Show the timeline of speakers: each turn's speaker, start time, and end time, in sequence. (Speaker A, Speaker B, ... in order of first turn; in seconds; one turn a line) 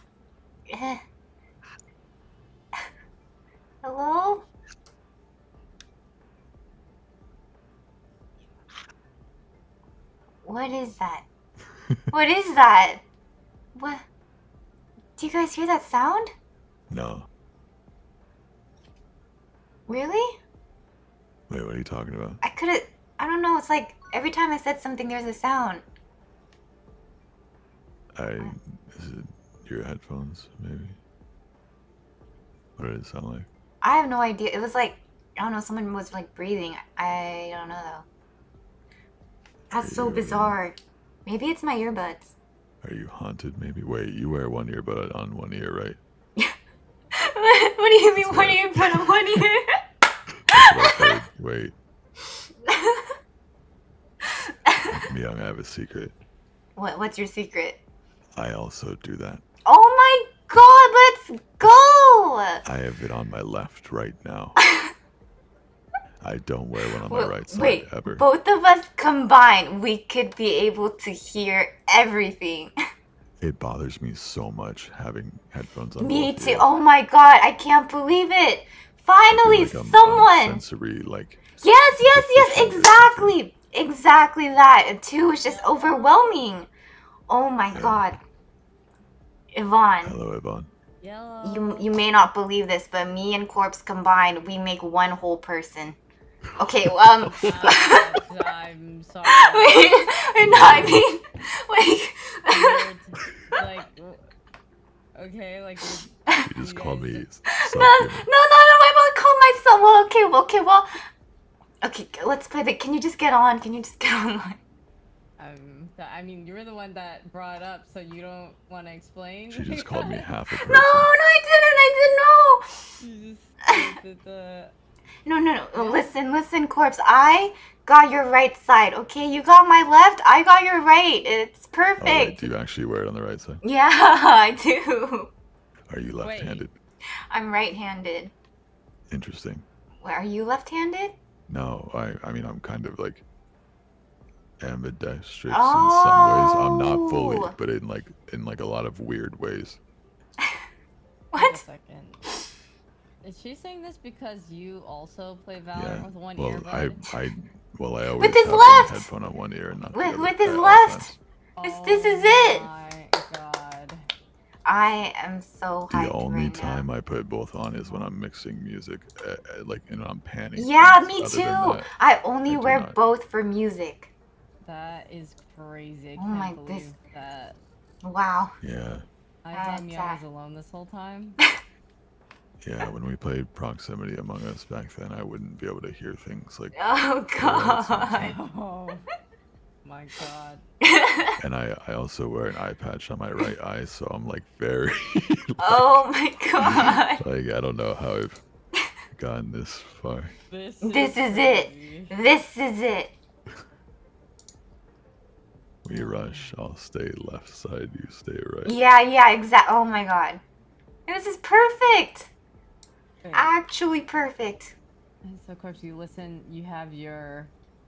Speaker A: 0.7-1.0
Speaker A: 3.8-4.5
Speaker A: 10.4-11.2
Speaker A: 12.1-13.0
Speaker A: 13.8-14.0
Speaker A: 15.2-16.3
Speaker B: 16.9-17.3
Speaker A: 19.9-20.3
Speaker B: 21.5-22.4
Speaker A: 22.4-25.8
Speaker B: 28.2-31.0
Speaker B: 32.8-33.5
Speaker A: 33.8-38.0
Speaker A: 39.7-42.4
Speaker B: 39.7-40.6
Speaker B: 42.8-46.0
Speaker A: 47.3-49.6
Speaker B: 48.2-49.4
Speaker B: 50.5-51.8
Speaker A: 50.5-51.1
Speaker A: 52.7-53.1
Speaker B: 54.8-56.1
Speaker A: 56.8-57.8
Speaker B: 58.4-59.4
Speaker A: 59.7-62.6
Speaker B: 62.6-64.6
Speaker B: 66.2-68.3
Speaker A: 67.1-72.7
Speaker B: 73.4-76.7
Speaker A: 76.0-80.6
Speaker B: 79.3-83.4
Speaker A: 81.6-86.7
Speaker C: 85.5-86.4
Speaker A: 87.3-88.2
Speaker B: 87.7-88.0
Speaker A: 89.5-90.2
Speaker B: 90.0-90.7
Speaker C: 91.0-91.9
Speaker A: 91.4-96.0
Speaker A: 96.6-98.0
Speaker C: 97.3-99.9
Speaker A: 99.3-102.8
Speaker B: 100.4-101.0
Speaker C: 102.5-104.2
Speaker C: 105.2-107.3
Speaker B: 106.4-108.3
Speaker A: 107.7-110.9
Speaker A: 111.8-114.6
Speaker C: 115.4-120.3
Speaker B: 119.5-121.2
Speaker A: 120.6-122.7
Speaker C: 123.0-124.8
Speaker A: 125.3-132.5
Speaker C: 125.8-126.1
Speaker B: 132.0-133.6
Speaker A: 133.6-135.3
Speaker B: 135.9-136.8
Speaker C: 136.2-136.7
Speaker A: 137.3-138.3
Speaker B: 139.1-139.7
Speaker A: 140.0-141.2
Speaker B: 141.5-143.2
Speaker B: 144.6-149.8
Speaker A: 145.5-147.5
Speaker A: 151.3-151.6
Speaker C: 151.3-152.2
Speaker C: 153.2-157.1
Speaker B: 155.8-161.2
Speaker A: 158.2-159.1
Speaker A: 159.9-162.7
Speaker C: 161.6-164.0
Speaker A: 164.7-166.9
Speaker B: 165.9-171.9
Speaker C: 167.7-168.1
Speaker A: 170.6-174.1
Speaker B: 172.5-173.0
Speaker C: 174.6-177.6
Speaker A: 176.2-176.9
Speaker A: 178.0-178.5
Speaker B: 178.6-179.1
Speaker C: 179.4-181.4
Speaker A: 179.5-180.2
Speaker B: 182.6-186.8
Speaker A: 186.8-188.4
Speaker B: 187.4-188.3
Speaker C: 188.2-189.0
Speaker C: 189.8-190.6
Speaker A: 190.8-191.3
Speaker B: 191.4-196.0
Speaker A: 195.6-197.2
Speaker B: 196.6-198.4
Speaker B: 199.2-200.3
Speaker C: 200.5-202.1
Speaker A: 200.8-203.1
Speaker B: 205.8-208.7
Speaker C: 205.9-206.6
Speaker A: 208.7-210.4
Speaker A: 211.1-212.3
Speaker C: 213.2-213.5
Speaker A: 213.3-214.8
Speaker C: 215.2-217.5